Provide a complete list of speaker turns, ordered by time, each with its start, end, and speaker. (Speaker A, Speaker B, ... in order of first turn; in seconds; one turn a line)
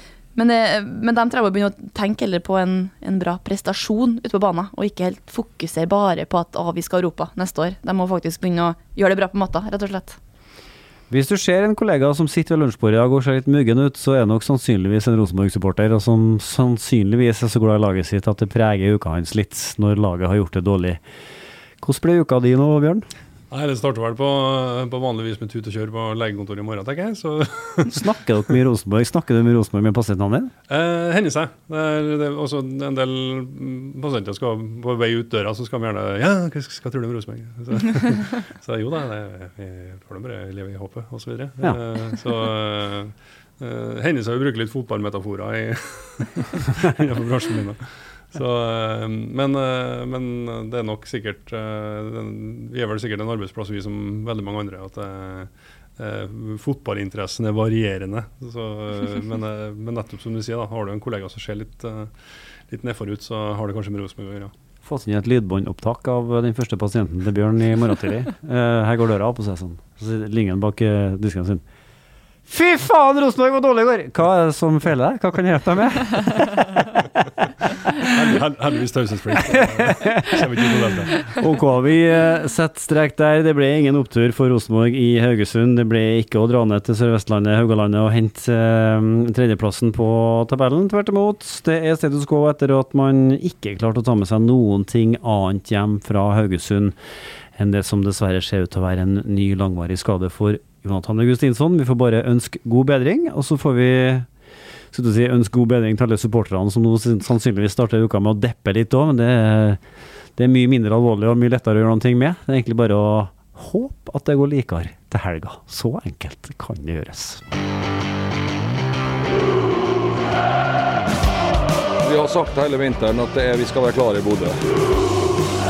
Speaker A: 0.3-10.2
Speaker B: 11.1-21.0
Speaker B: 21.8-23.1
Speaker C: 23.5-28.1
Speaker B: 27.9-30.5
Speaker C: 30.7-62.1
Speaker C: 62.7-64.5
Speaker B: 64.8-71.6
Speaker B: 72.5-76.7
Speaker C: 77.9-81.4
Speaker B: 79.5-80.7
Speaker B: 81.3-97.0
Speaker B: 97.5-104.3
Speaker B: 104.9-109.8
Speaker B: 110.4-117.4
Speaker D: 122.0-124.6